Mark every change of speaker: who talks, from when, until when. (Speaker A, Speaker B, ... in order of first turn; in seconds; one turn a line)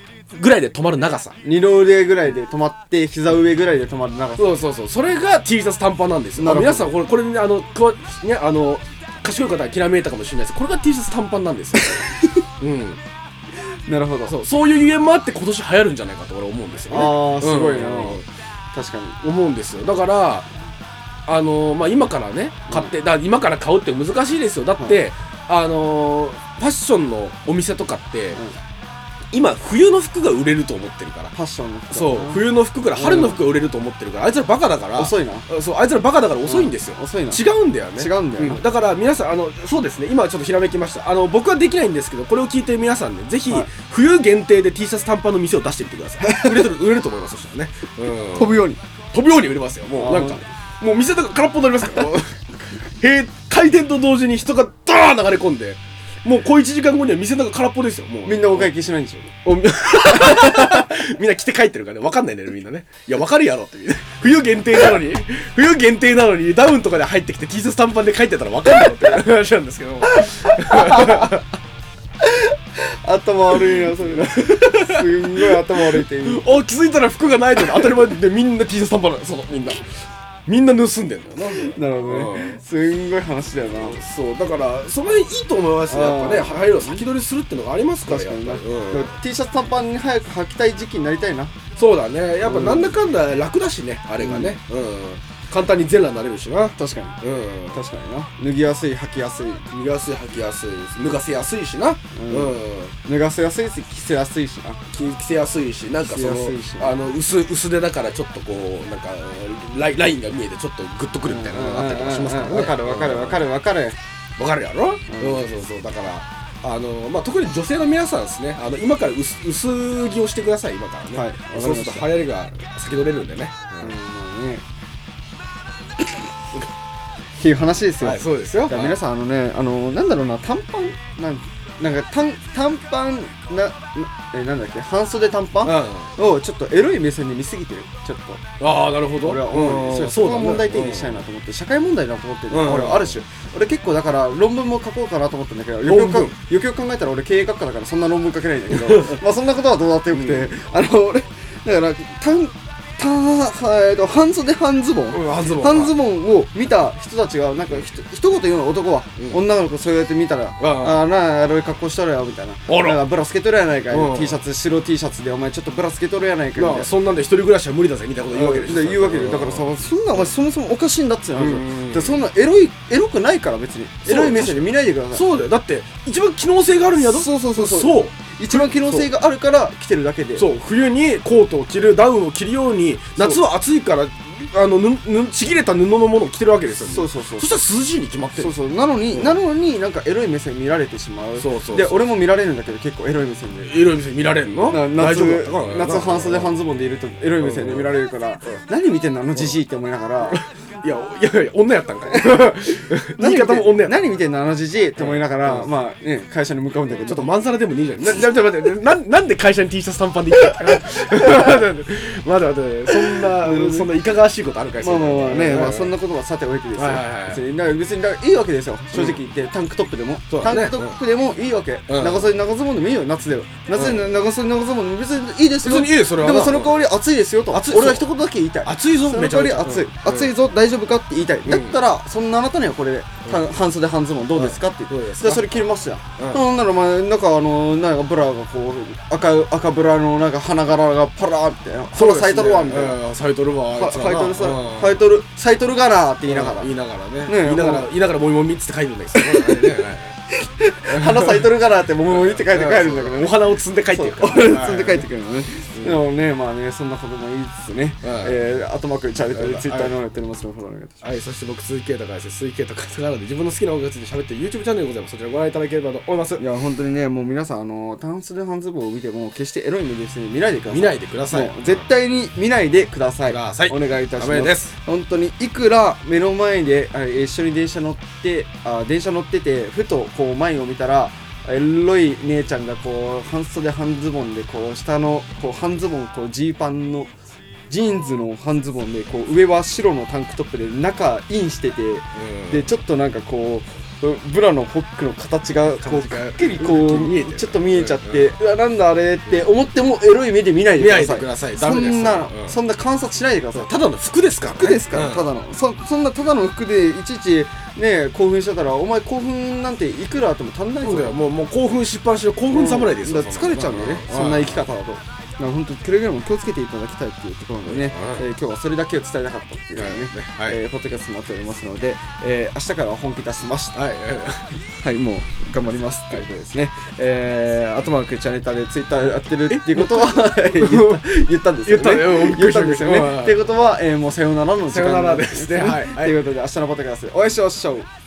Speaker A: 0.3-1.4
Speaker B: 1.4-4.5
Speaker A: 4.3-12.1
Speaker B: 6.4-6.9
Speaker B: 11.7-12.4
Speaker A: 12.6-13.0
Speaker B: 13.8-14.3
Speaker A: 14.2-18.2
Speaker B: 16.9-18.2
Speaker B: 18.7-19.2
Speaker A: 19.2-20.4
Speaker A: 21.3-28.4
Speaker B: 22.7-22.9
Speaker A: 29.3-31.3
Speaker B: 31.3-33.4
Speaker A: 31.9-58.7
Speaker B: 35.0-35.5
Speaker B: 36.4-37.4
Speaker B: 37.9-38.6
Speaker B: 46.2-46.7
Speaker B: 48.3-48.8
Speaker B: 50.0-50.4
Speaker B: 58.2-59.3
Speaker A: 59.4-71.4
Speaker B: 60.2-60.7
Speaker B: 70.1-71.3
Speaker B: 72.2-76.6
Speaker A: 73.6-79.9
Speaker A: 80.5-82.6
Speaker B: 81.5-84.0
Speaker A: 83.8-89.2
Speaker B: 85.9-87.0
Speaker B: 88.0-91.5
Speaker A: 91.8-97.8
Speaker B: 92.4-93.0
Speaker B: 94.2-94.6
Speaker B: 96.8-97.2
Speaker B: 97.7-99.7
Speaker A: 99.7-103.0
Speaker B: 102.1-104.8
Speaker A: 104.9-113.5
Speaker B: 106.0-107.0
Speaker B: 111.2-114.0
Speaker A: 114.4-124.0
Speaker B: 115.1-115.4
Speaker B: 121.1-122.1
Speaker B: 123.8-124.6
Speaker B: 127.4-138.4
Speaker A: 128.0-129.0
Speaker A: 135.6-136.1
Speaker A: 138.6-141.2
Speaker B: 139.2-166.9
Speaker A: 142.5-143.2
Speaker A: 145.8-146.3
Speaker A: 148.8-149.2
Speaker A: 150.1-150.6
Speaker A: 155.1-155.9
Speaker A: 160.6-161.1
Speaker A: 162.7-163.0
Speaker A: 163.9-164.4
Speaker A: 166.6-170.3
Speaker B: 168.3-175.3
Speaker A: 171.4-172.2
Speaker A: 174.0-179.1
Speaker B: 176.9-180.5
Speaker A: 180.3-188.5
Speaker B: 183.2-183.4
Speaker B: 186.8-187.5
Speaker B: 188.3-193.7
Speaker A: 189.1-189.4
Speaker A: 191.4-192.1
Speaker A: 193.6-196.6
Speaker B: 194.6-200.4
Speaker A: 197.4-197.9
Speaker A: 200.3-204.0
Speaker B: 203.2-207.3
Speaker A: 205.0-205.7
Speaker A: 206.9-215.9
Speaker B: 213.3-213.9
Speaker B: 214.8-243.0
Speaker A: 216.7-217.4
Speaker A: 218.9-219.2
Speaker A: 220.3-221.0
Speaker A: 221.9-222.3
Speaker A: 223.7-224.2
Speaker A: 225.6-226.8
Speaker A: 227.5-228.1
Speaker A: 228.6-230.3
Speaker A: 231.4-231.8
Speaker A: 233.2-233.5
Speaker A: 234.3-235.6
Speaker A: 236.2-236.4
Speaker A: 241.9-245.0
Speaker B: 243.7-246.7
Speaker A: 246.3-250.2
Speaker B: 247.2-247.9
Speaker B: 249.1-249.8
Speaker B: 250.3-261.0
Speaker A: 250.9-251.5
Speaker A: 252.1-255.1
Speaker A: 255.7-256.0
Speaker A: 258.0-258.4
Speaker A: 259.3-259.9
Speaker A: 261.0-266.4
Speaker B: 266.4-287.1
Speaker A: 270.7-271.9
Speaker A: 273.3-274.7
Speaker B: 287.7-303.7
Speaker A: 292.1-292.7
Speaker A: 295.8-298.4
Speaker A: 300.8-302.6
Speaker A: 303.5-305.3
Speaker B: 304.5-311.2
Speaker A: 310.8-314.7
Speaker B: 312.5-323.8
Speaker A: 317.6-318.2
Speaker A: 319.8-320.6
Speaker A: 323.7-324.6
Speaker B: 324.8-337.9
Speaker A: 329.5-333.4
Speaker A: 334.7-336.2